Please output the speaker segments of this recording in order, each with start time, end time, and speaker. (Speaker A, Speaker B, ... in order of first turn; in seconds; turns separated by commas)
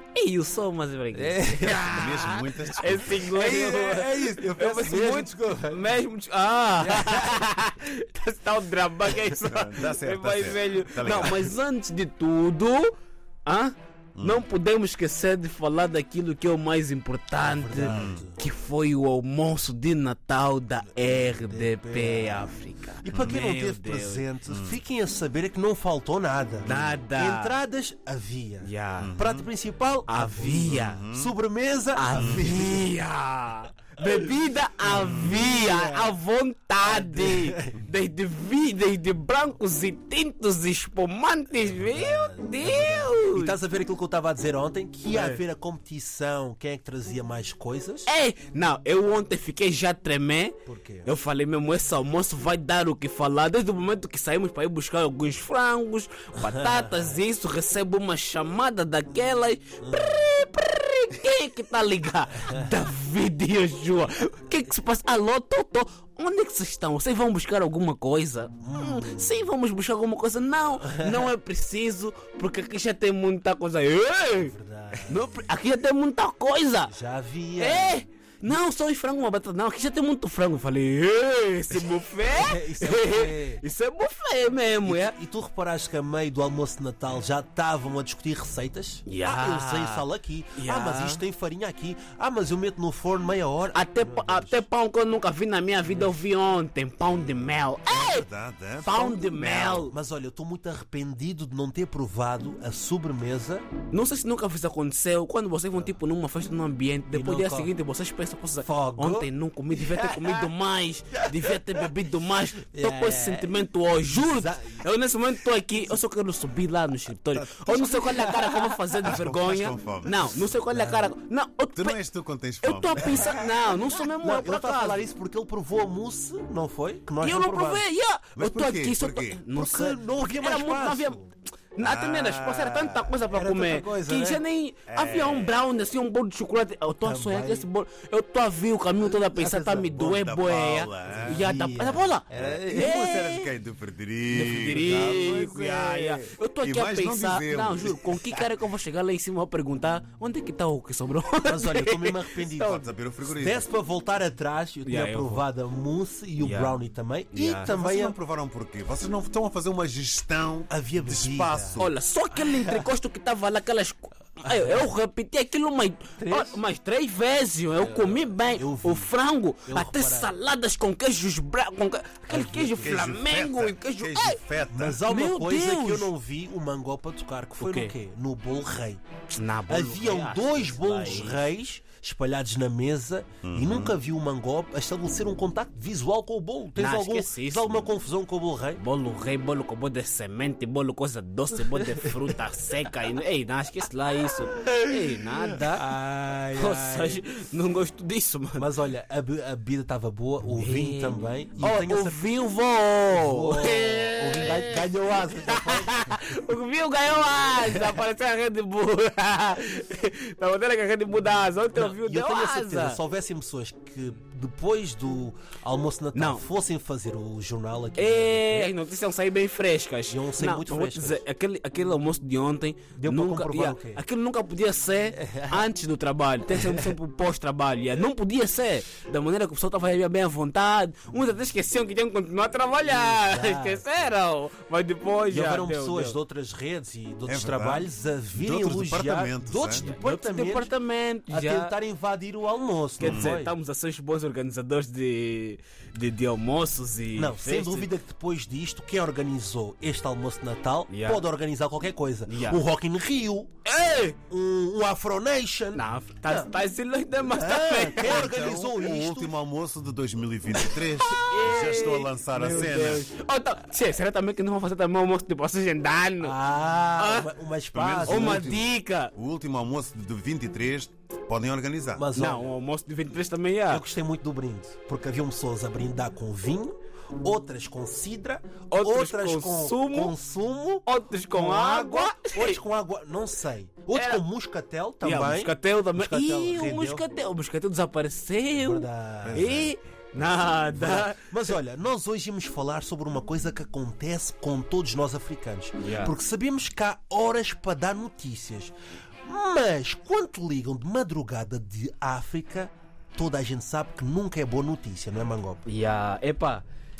Speaker A: 0.1-12.9, Speaker B: 1.1-2.1, Speaker C: 1.7-4.5, Speaker B: 3.4-6.0, Speaker B: 6.8-7.5, Speaker C: 9.4-11.5, Speaker A: 13.4-24.2, Speaker C: 14.2-14.4, Speaker B: 17.4-18.4, Speaker C: 17.8-18.2, Speaker B: 20.9-32.9, Speaker C: 23.1-23.4, Speaker C: 24.5-24.8, Speaker A: 26.6-27.6, Speaker A: 28.6-29.2, Speaker C: 29.0-29.4, Speaker A: 30.1-31.1, Speaker C: 30.7-31.3, Speaker A: 31.9-43.6, Speaker C: 32.1-32.5, Speaker B: 34.0-34.3, Speaker B: 34.8-36.2, Speaker B: 36.8-37.8, Speaker B: 41.6-48.1, Speaker A: 45.1-45.4, Speaker A: 48.1-74.5, Speaker B: 50.7-51.1, Speaker B: 56.4-57.2, Speaker B: 59.8-60.2, Speaker B: 62.3-62.8, Speaker B: 68.6-69.4, Speaker B: 70.8-71.3, Speaker B: 74.4-75.4, Speaker A: 75.0-76.9, Speaker B: 76.9-78.6, Speaker A: 77.6-85.2, Speaker B: 82.2-83.6, Speaker B: 84.8-94.7, Speaker A: 89.1-91.2, Speaker A: 93.7-98.3, Speaker C: 97.9-99.0, Speaker A: 98.8-99.9, Speaker B: 98.9-103.7, Speaker A: 103.9-122.0, Speaker B: 107.1-107.7, Speaker B: 108.6-110.5, Speaker B: 111.1-111.9, Speaker B: 112.7-114.9, Speaker B: 115.6-116.0, Speaker C: 117.3-118.0, Speaker B: 118.0-119.1, Speaker C: 119.0-120.6, Speaker B: 120.7-121.1, Speaker C: 121.8-123.4, Speaker A: 122.6-125.0, Speaker B: 123.0-123.5, Speaker B: 124.2-127.8, Speaker A: 127.2-131.2, Speaker C: 128.3-129.4, Speaker B: 129.5-131.3, Speaker A: 131.8-143.5, Speaker C: 131.8-133.2, Speaker B: 133.3-134.4, Speaker C: 134.9-135.6, Speaker B: 137.0-137.7, Speaker B: 139.0-140.1, Speaker C: 139.9-141.4, Speaker B: 141.0-143.0, Speaker C: 142.3-148.5, Speaker A: 144.3-152.8, Speaker B: 151.4-158.2, Speaker C: 152.7-153.7, Speaker A: 154.8-155.5, Speaker A: 156.4-156.8, Speaker A: 157.3-157.7, Speaker C: 157.7-161.9, Speaker B: 160.7-162.9, Speaker A: 161.8-174.4, Speaker B: 164.4-164.8, Speaker B: 166.2-166.6, Speaker B: 167.8-169.1, Speaker B: 169.6-170.3, Speaker B: 172.3-173.0, Speaker C: 172.8-175.0, Speaker B: 174.7-179.0, Speaker A: 175.1-176.1, Speaker A: 177.6-177.9, Speaker A: 179.3-181.5, Speaker B: 179.7-188.8, Speaker C: 183.4-183.9, Speaker A: 186.8-187.9, Speaker A: 188.8-195.8, Speaker B: 195.5-197.2, Speaker A: 196.5-198.7, Speaker B: 198.6-202.3, Speaker A: 200.6-213.0, Speaker B: 203.1-206.1, Speaker B: 207.6-208.0, Speaker B: 211.7-218.7, Speaker A: 216.1-216.4, Speaker A: 218.0-236.2, Speaker B: 220.1-221.2, Speaker B: 222.9-224.0, Speaker B: 225.2-225.6, Speaker B: 226.5-226.9, Speaker B: 232.9-233.9, Speaker B: 235.3-240.7, Speaker C: 237.3-239.9, Speaker A: 239.8-241.7, Speaker B: 241.3-243.6, Speaker A: 243.0-247.9, Speaker C: 243.0-243.4, Speaker B: 247.2-253.5, Speaker A: 250.9-251.2, Speaker A: 252.3-252.6, Speaker A: 253.7-254.2, Speaker B: 254.3-256.5, Speaker A: 255.7-258.4, Speaker B: 257.2-259.3, Speaker C: 258.0-263.1, Speaker A: 260.6-266.4, Speaker B: 266.2-268.6, Speaker A: 267.0-267.3, Speaker C: 267.7-272.1, Speaker A: 268.1-269.1, Speaker B: 271.9-272.5, Speaker A: 272.1-273.8, Speaker B: 273.7-287.0, Speaker A: 278.7-280.1, Speaker A: 280.9-282.6, Speaker A: 283.9-284.2, Speaker A: 285.0-291.6, Speaker B: 288.5-289.5, Speaker C: 289.2-289.8, Speaker B: 290.6-298.7, Speaker A: 295.8-296.1, Speaker B: 299.2-305.6, Speaker A: 305.6-306.6